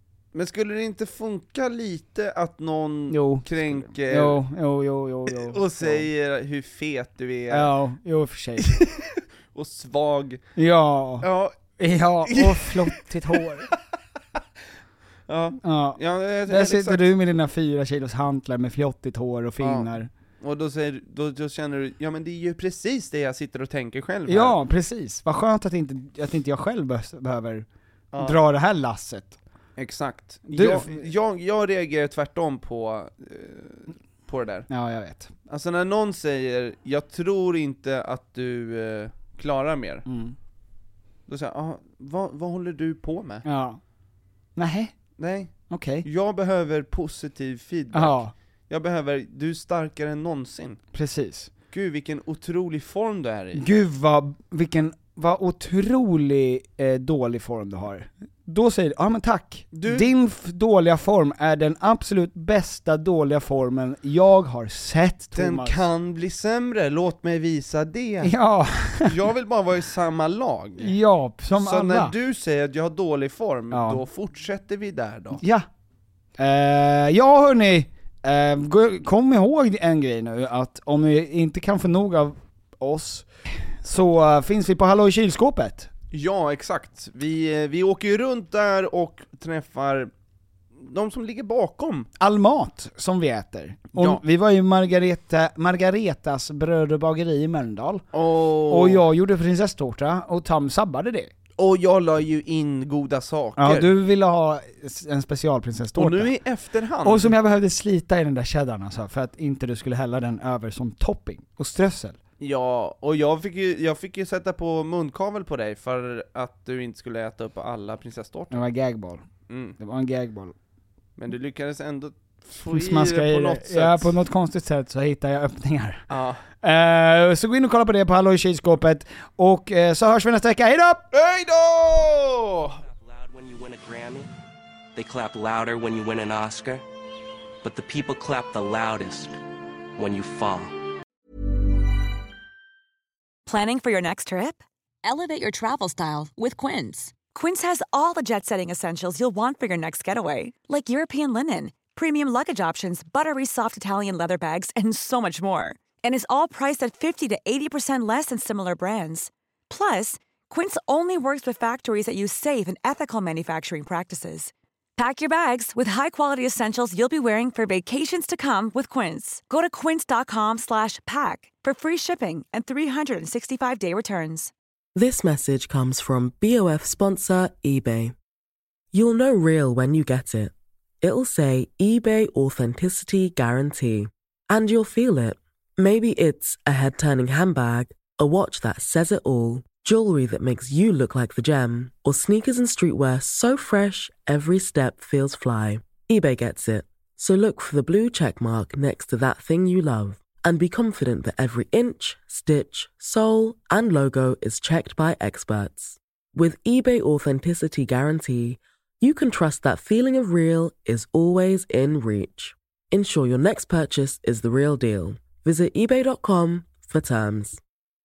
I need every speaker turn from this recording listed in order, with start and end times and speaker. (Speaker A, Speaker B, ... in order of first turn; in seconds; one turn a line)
Speaker A: 0.3-4.4
Speaker B: 3.1-6.1
Speaker A: 5.3-7.7
Speaker B: 7.5-8.8
Speaker A: 8.6-10.4
Speaker B: 10.6-13.7
Speaker A: 11.2-11.6
Speaker A: 12.2-13.4
Speaker A: 15.3-17.1
Speaker B: 15.6-20.1
Speaker A: 19.6-24.6
Speaker B: 24.3-27.7
Speaker A: 28.1-28.4
Speaker B: 28.2-29.4
Speaker A: 29.8-34.7
Speaker B: 30.5-31.0
Speaker B: 34.7-35.3
Speaker A: 35.5-40.1
Speaker B: 40.1-40.4
Speaker A: 41.3-43.4
Speaker B: 43.4-43.8
Speaker B: 44.6-45.0
Speaker A: 45.2-50.8
Speaker B: 45.7-46.1
Speaker B: 47.9-48.3
Speaker B: 50.9-51.5
Speaker A: 51.7-53.7
Speaker B: 53.5-65.8
Speaker A: 59.7-60.1
Speaker A: 65.3-68.3
Speaker B: 68.2-69.2
Speaker A: 69.0-71.0
Speaker B: 70.8-72.1
Speaker A: 71.6-75.4
Speaker B: 73.7-74.0
Speaker B: 75.4-75.7
Speaker B: 76.4-83.3
Speaker B: 83.8-85.9
Speaker A: 86.1-90.1
Speaker A: 90.8-92.1
Speaker B: 92.2-98.1
Speaker A: 93.9-94.2
Speaker A: 98.1-99.0
Speaker B: 98.7-101.3
Speaker A: 101.6-103.9
Speaker B: 103.6-106.3
Speaker A: 106.0-107.3
Speaker B: 107.0-112.2
Speaker A: 112.4-118.6
Speaker B: 118.5-119.2
Speaker A: 119.5-119.8
Speaker B: 119.8-120.5
Speaker A: 121.2-124.1
Speaker B: 122.7-126.1
Speaker A: 126.1-126.4
Speaker B: 126.6-131.1
Speaker A: 131.1-132.8
Speaker C: 132.8-134.3
Speaker C: 135.0-136.8
Speaker C: 137.6-139.3
Speaker C: 140.0-140.8
Speaker D: 143.5-174.5
Speaker E: 174.9-178.1
Speaker E: 178.9-217.6